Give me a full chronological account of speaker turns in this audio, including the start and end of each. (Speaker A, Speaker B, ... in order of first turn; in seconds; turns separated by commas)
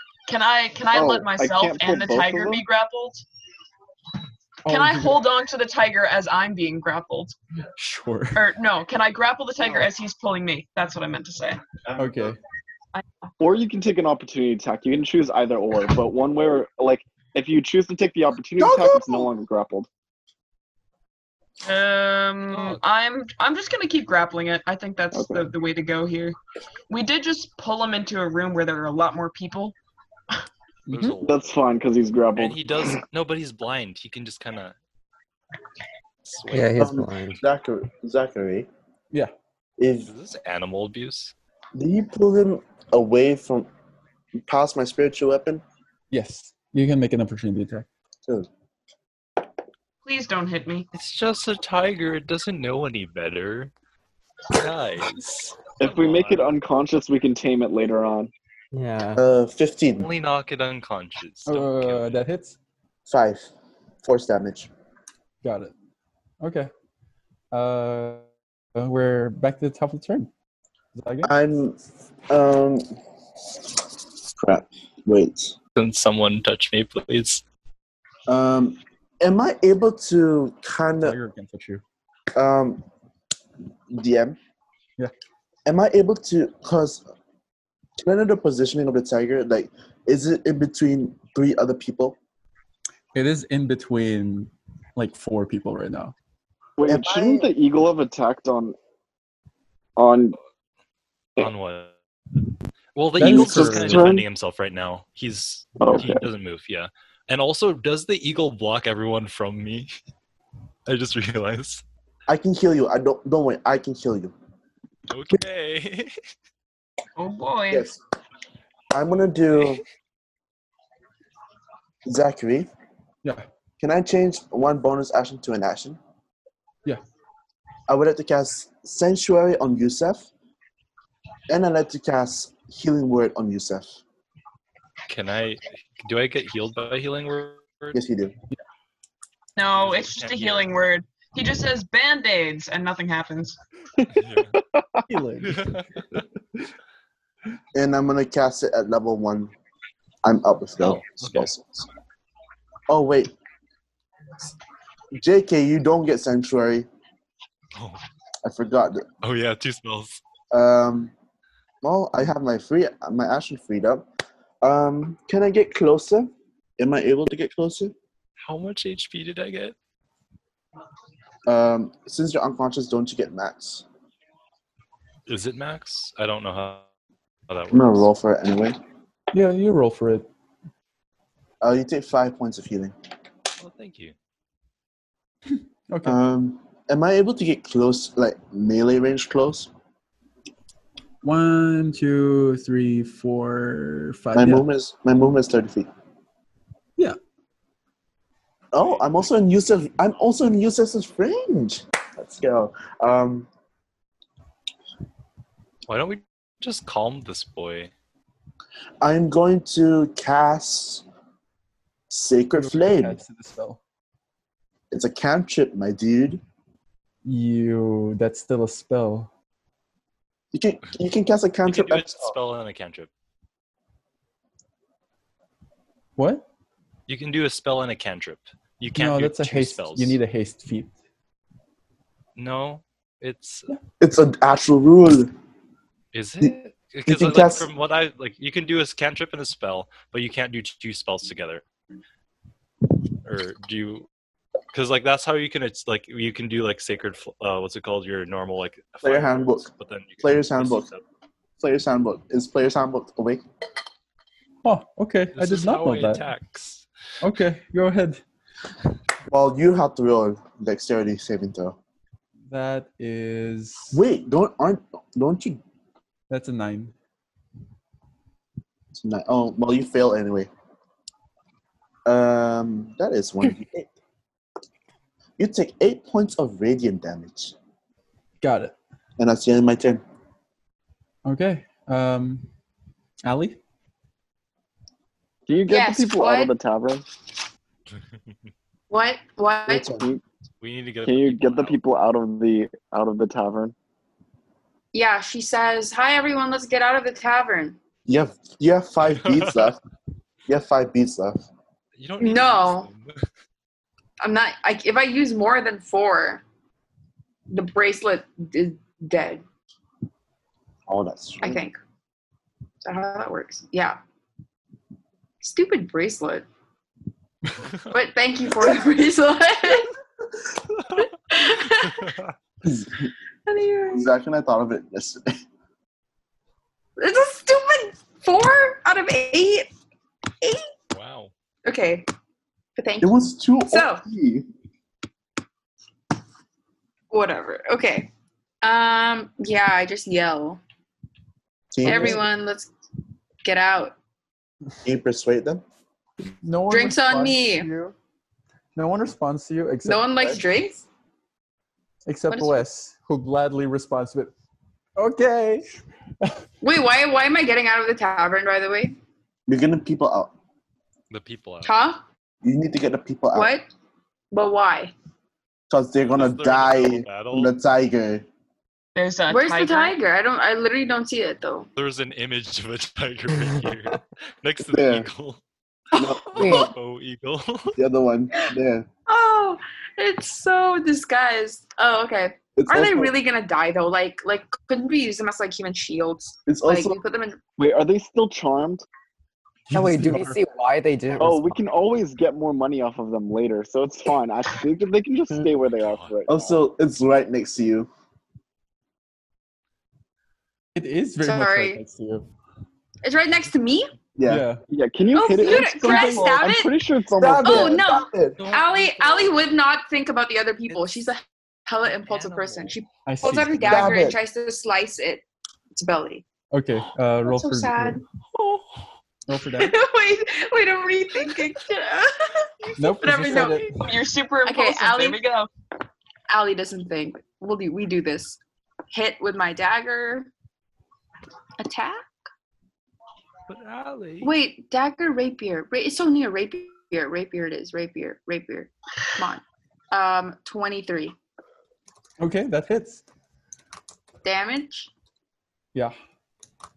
Speaker A: 0.3-3.2, Speaker B: 0.9-1.3, Speaker C: 1.3-2.6, Speaker D: 4.7-5.2, Speaker A: 4.7-7.4, Speaker D: 7.8-8.5, Speaker A: 8.3-11.6, Speaker D: 12.0-12.4, Speaker C: 13.4-19.9, Speaker B: 18.6-19.3, Speaker A: 21.6-26.4, Speaker E: 22.5-22.8, Speaker C: 25.1-25.5, Speaker A: 26.9-29.8, Speaker D: 30.9-31.2, Speaker E: 30.9-31.4, Speaker C: 31.2-33.0, Speaker E: 32.4-34.8, Speaker E: 36.3-36.8, Speaker F: 36.5-37.4, Speaker B: 36.8-38.7, Speaker B: 39.8-40.1, Speaker E: 40.0-41.3, Speaker B: 41.8-43.7, Speaker B: 44.4-45.6, Speaker D: 46.1-47.9, Speaker A: 50.0-50.9, Speaker E: 50.9-53.7, Speaker E: 54.5-56.6, Speaker D: 55.2-55.5, Speaker C: 55.8-58.3, Speaker F: 58.7-59.2, Speaker B: 59.2-60.1, Speaker E: 60.0-62.2, Speaker D: 61.5-62.6, Speaker B: 63.1-63.5, Speaker B: 64.0-64.7, Speaker D: 65.4-65.7, Speaker D: 66.4-66.7, Speaker D: 67.5-68.3, Speaker D: 68.8-70.3, Speaker D: 71.0-71.3, Speaker B: 71.2-71.8, Speaker B: 72.3-72.8, Speaker B: 74.3-75.6, Speaker E: 75.8-77.4, Speaker B: 78.3-81.2, Speaker D: 81.0-81.8, Speaker B: 82.3-82.8, Speaker B: 83.9-84.4, Speaker B: 85.7-87.0, Speaker B: 88.0-92.2, Speaker D: 93.2-96.1, Speaker C: 96.8-98.8, Speaker B: 96.8-97.5, Speaker C: 100.0-100.4, Speaker E: 101.4-101.9, Speaker E: 103.0-109.9, Speaker D: 103.2-104.1, Speaker C: 103.2-104.3, Speaker C: 105.8-106.2, Speaker E: 110.9-111.8, Speaker B: 112.3-114.3, Speaker E: 115.1-116.2, Speaker A: 117.2-117.9, Speaker B: 117.7-118.0, Speaker B: 118.9-119.8, Speaker B: 122.0-122.7, Speaker B: 123.8-126.0, Speaker B: 127.9-130.3, Speaker B: 131.5-134.0, Speaker E: 135.1-138.0, Speaker B: 137.9-138.3, Speaker A: 139.6-143.6, Speaker E: 139.7-140.8, Speaker E: 144.1-144.6, Speaker C: 144.6-145.0, Speaker D: 145.1-146.6, Speaker E: 145.4-146.2, Speaker B: 147.7-149.5, Speaker B: 150.2-151.9, Speaker E: 150.8-151.5, Speaker B: 152.9-153.3, Speaker B: 155.1-156.9, Speaker E: 157.7-158.0, Speaker B: 158.4-159.1, Speaker E: 159.2-160.2, Speaker B: 160.5-161.1, Speaker B: 161.8-164.1, Speaker B: 164.6-167.9, Speaker E: 168.4-169.8, Speaker B: 171.5-173.8, Speaker E: 175.3-176.9, Speaker E: 177.5-178.1, Speaker B: 177.7-178.8, Speaker D: 179.3-180.3, Speaker B: 181.6-182.9, Speaker E: 183.6-184.2, Speaker D: 185.9-186.2, Speaker B: 186.1-189.7, Speaker D: 191.2-194.6, Speaker B: 194.4-195.9, Speaker B: 198.7-203.5, Speaker E: 198.8-199.3, Speaker E: 205.9-207.9, Speaker B: 209.0-211.0, Speaker B: 212.1-213.2, Speaker D: 212.6-213.8, Speaker B: 214.9-216.4, Speaker D: 217.2-219.3, Speaker B: 220.5-222.3, Speaker E: 221.7-223.1, Speaker D: 226.2-226.4, Speaker E: 227.1-230.2, Speaker D: 229.0-230.9, Speaker E: 232.4-233.7, Speaker B: 234.0-235.3, Speaker E: 236.1-241.6, Speaker B: 237.1-237.7, Speaker E: 243.2-244.1, Speaker E: 244.7-251.0, Speaker B: 249.0-249.7, Speaker B: 250.2-250.9, Speaker B: 251.6-253.4, Speaker D: 254.6-256.3, Speaker E: 255.3-256.9, Speaker D: 257.2-258.2, Speaker B: 259.3-261.8, Speaker D: 262.5-264.0, Speaker B: 263.9-265.6, Speaker D: 266.3-266.9, Speaker B: 268.9-270.5, Speaker B: 272.1-273.9, Speaker B: 275.4-277.6, Speaker D: 278.4-278.8, Speaker B: 279.2-280.0, Speaker D: 281.2-282.5, Speaker D: 283.2-283.6, Speaker C: 285.5-287.1, Speaker G: 285.7-286.5, Speaker G: 288.9-290.0, Speaker B: 289.7-290.1, Speaker E: 290.6-291.8, Speaker C: 291.0-293.7, Speaker G: 294.9-297.8, Speaker B: 298.1-299.8, Speaker E: 299.0-299.8, Speaker B: 300.5-301.4, Speaker E: 302.0-303.2, Speaker G: 302.2-302.9, Speaker G: 304.2-306.4, Speaker G: 307.5-309.4, Speaker B: 310.9-311.6, Speaker G: 311.4-311.8, Speaker G: 312.8-314.0, Speaker G: 315.4-316.5, Speaker G: 317.8-319.9, Speaker G: 320.9-322.1, Speaker E: 321.7-322.3, Speaker B: 322.6-323.1, Speaker G: 323.5-324.1, Speaker B: 323.9-325.4, Speaker G: 327.0-329.7, Speaker G: 330.4-330.7, Speaker E: 330.9-331.3, Speaker G: 331.6-332.1, Speaker G: 332.8-334.1, Speaker B: 333.0-334.5, Speaker G: 337.1-338.1, Speaker G: 338.6-340.6, Speaker B: 341.7-342.2, Speaker D: 341.8-342.2, Speaker G: 341.8-342.7, Speaker G: 343.4-343.9, Speaker B: 344.8-345.6, Speaker D: 346.4-347.9, Speaker G: 346.7-347.7, Speaker D: 348.8-350.4, Speaker G: 349.8-350.9, Speaker D: 352.1-354.3, Speaker G: 352.3-352.6, Speaker D: 355.0-355.6, Speaker G: 356.6-359.0, Speaker B: 359.5-360.3, Speaker E: 361.1-361.8, Speaker G: 361.6-362.0, Speaker B: 362.4-363.5, Speaker G: 363.4-363.7, Speaker G: 364.3-364.9, Speaker B: 365.7-368.3, Speaker E: 366.1-367.5, Speaker A: 368.9-370.0, Speaker G: 369.3-371.7, Speaker E: 371.8-375.4, Speaker B: 374.7-375.1, Speaker B: 375.9-376.7, Speaker F: 376.4-376.7, Speaker E: 376.4-377.8, Speaker G: 376.4-376.7, Speaker B: 377.8-378.9, Speaker G: 379.1-387.4, Speaker B: 382.6-383.1, Speaker B: 386.5-387.0, Speaker C: 387.6-388.9, Speaker D: 389.7-390.4, Speaker F: 389.7-391.6, Speaker C: 391.2-396.6, Speaker E: 395.7-396.1, Speaker B: 396.3-397.9, Speaker D: 400.8-402.3, Speaker G: 401.2-401.8, Speaker G: 403.0-403.9, Speaker B: 404.2-404.4, Speaker D: 404.3-404.6, Speaker C: 404.7-407.8, Speaker G: 405.1-406.7, Speaker A: 405.5-405.8, Speaker D: 405.7-406.4, Speaker B: 407.1-408.4, Speaker G: 407.4-416.2, Speaker E: 408.4-409.5, Speaker E: 412.0-412.8, Speaker D: 413.1-414.1, Speaker B: 413.6-414.2, Speaker D: 416.5-418.0, Speaker G: 417.2-418.0, Speaker D: 419.3-419.8, Speaker G: 419.5-423.8, Speaker D: 422.8-424.0, Speaker A: 423.8-425.5, Speaker G: 424.4-425.2, Speaker G: 426.3-428.4, Speaker G: 428.9-430.3, Speaker G: 431.6-432.1, Speaker E: 433.5-434.3, Speaker G: 434.2-441.1, Speaker D: 442.2-443.0, Speaker G: 444.2-444.9